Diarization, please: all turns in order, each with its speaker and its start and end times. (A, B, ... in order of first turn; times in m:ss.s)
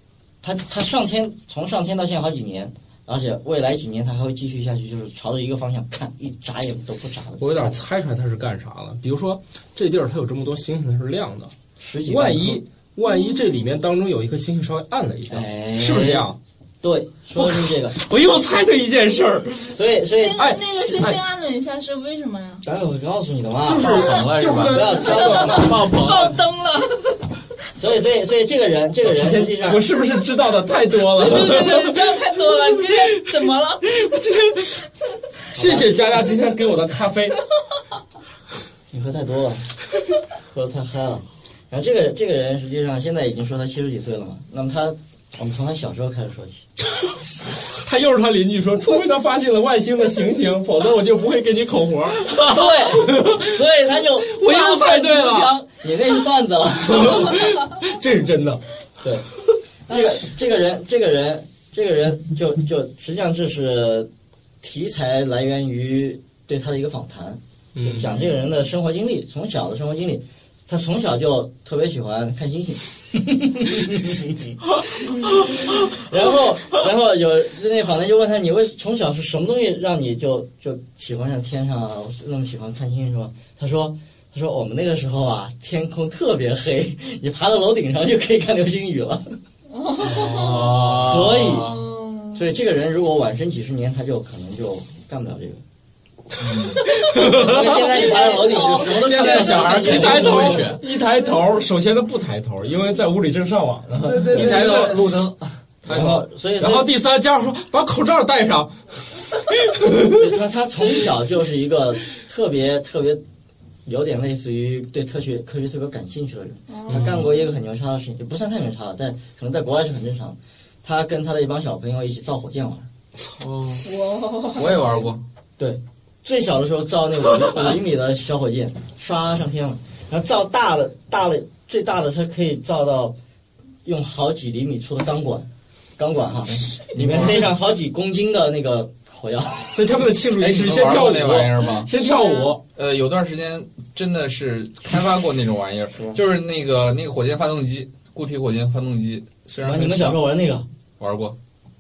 0:00.4-0:07.8 A
0:07.4-0:11.5 B
0:11.8-0:12.6 A
0:12.0-0:16.4 B
0:13.0-0:13.5 C
0:15.3-0:16.3 A
0:16.8-0:18.0 A
0:17.4-0:19.8 B
0:19.7-0:20.4 A
0:20.1-0:22.6 C
0:20.4-0:21.2 B
0:22.6-0:25.9 A
0:23.6-0:25.8 B
0:23.8-0:26.4 D
0:25.1-0:27.2 C
0:27.8-0:29.8 A
0:29.0-0:34.8 B
0:31.2-0:34.0 C
0:35.5-0:37.4 B
0:35.6-0:36.0 A
0:38.9-0:39.6 A
0:40.5-0:46.6 A
0:47.7-0:55.5 B
0:52.4-0:57.5 A
0:56.9-0:58.6 B
0:59.9-1:04.1 A
1:04.6-1:29.4 A
1:07.8-1:08.3 B
1:29.7-1:30.8 C
1:30.0-1:31.8 D
1:30.1-1:31.1 B
1:30.9-1:31.8 A
1:31.5-1:32.4 C
1:32.4-1:35.6 A
1:36.4-1:36.8 D
1:36.8-1:38.0 B
1:37.2-1:40.6 A
1:37.6-1:40.1 C
1:38.7-1:40.8 D
1:39.6-1:45.0 B
1:40.8-1:41.4 C
1:44.0-1:45.0 C
1:44.3-1:45.5 D
1:45.8-1:46.9 A
1:45.9-1:50.1 B
1:50.1-1:53.2 A
1:53.9-2:02.9 A
1:56.7-1:57.4 C
1:56.9-1:57.2 B
2:03.4-2:03.9 D
2:03.8-2:05.1 C
2:04.5-2:05.2 D
2:05.6-2:13.2 A
2:13.8-2:19.7 A
2:16.9-2:17.5 D
2:17.2-2:17.4 B
2:19.7-2:22.6 B
2:20.4-2:21.9 D
2:22.0-2:22.5 C
2:22.8-2:30.2 D
2:29.6-2:30.6 A
2:31.0-2:31.4 D